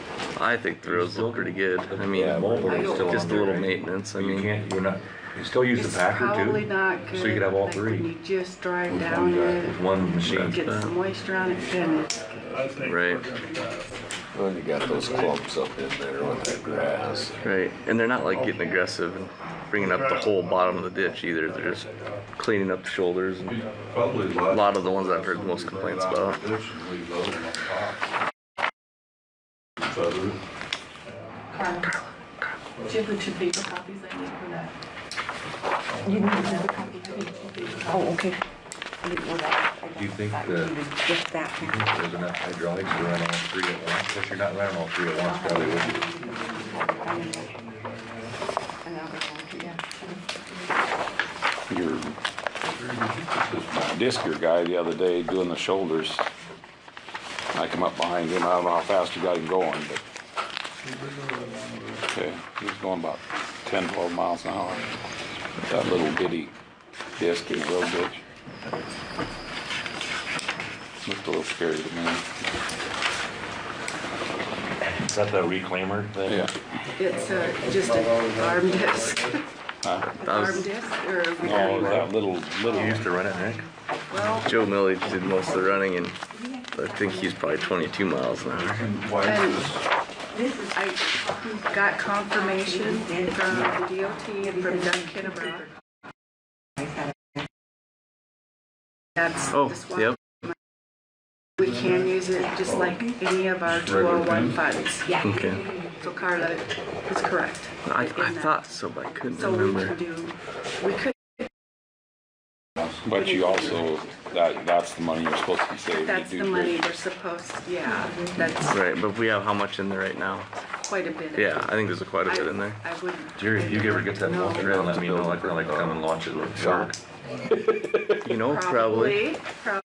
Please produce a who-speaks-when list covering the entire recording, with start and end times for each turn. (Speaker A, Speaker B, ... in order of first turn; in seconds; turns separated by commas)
Speaker A: 0.3-4.5, Speaker B: 0.9-8.1, Speaker C: 2.1-2.9, Speaker D: 2.6-3.5, Speaker D: 5.8-9.8, Speaker E: 9.3-9.6, Speaker B: 9.5-10.7, Speaker A: 10.2-10.9, Speaker D: 10.3-12.3, Speaker C: 12.4-12.7, Speaker E: 12.5-14.2, Speaker A: 12.8-13.3, Speaker C: 14.3-17.4, Speaker E: 14.7-15.4, Speaker E: 16.1-17.5, Speaker A: 17.3-21.9, Speaker E: 18.3-18.7, Speaker E: 19.8-22.3, Speaker A: 22.4-23.6, Speaker E: 23.4-28.0, Speaker A: 24.5-26.4, Speaker E: 29.8-30.4, Speaker E: 31.0-31.5, Speaker D: 31.5-32.0, Speaker A: 31.8-32.5, Speaker D: 32.9-34.7, Speaker E: 35.9-38.2, Speaker F: 36.0-38.4, Speaker D: 36.3-38.1, Speaker F: 39.0-41.5, Speaker B: 39.9-40.8, Speaker B: 41.5-46.1, Speaker F: 45.3-47.4, Speaker E: 45.6-48.4, Speaker F: 48.8-50.2, Speaker G: 51.7-52.1, Speaker E: 52.7-53.9, Speaker G: 53.7-56.3, Speaker G: 57.5-60.0, Speaker E: 60.8-62.1, Speaker G: 62.1-64.9, Speaker G: 65.6-66.5, Speaker G: 67.2-68.2, Speaker G: 71.0-72.3, Speaker B: 75.0-76.5, Speaker G: 76.3-76.5, Speaker D: 77.0-79.4, Speaker E: 77.1-79.3, Speaker G: 79.8-80.2, Speaker A: 80.2-80.7, Speaker D: 80.2-82.1, Speaker G: 81.4-82.9, Speaker B: 81.4-82.1, Speaker B: 82.7-83.6, Speaker D: 84.1-84.5, Speaker A: 84.4-88.9, Speaker E: 88.6-89.8, Speaker D: 89.2-89.7, Speaker D: 90.7-95.7, Speaker A: 99.5-100.2, Speaker D: 101.6-105.3, Speaker E: 102.7-103.0, Speaker E: 103.7-104.6, Speaker A: 105.2-105.7, Speaker D: 106.0-108.6, Speaker A: 107.8-110.0, Speaker D: 109.3-111.1, Speaker G: 113.0-116.8, Speaker D: 115.9-118.8, Speaker A: 118.7-120.5, Speaker D: 120.7-121.8, Speaker A: 121.3-122.8, Speaker D: 122.3-124.8, Speaker B: 123.4-127.0, Speaker C: 124.6-126.9, Speaker E: 127.2-127.6, Speaker C: 127.5-128.2, Speaker A: 128.2-129.3, Speaker D: 128.4-129.8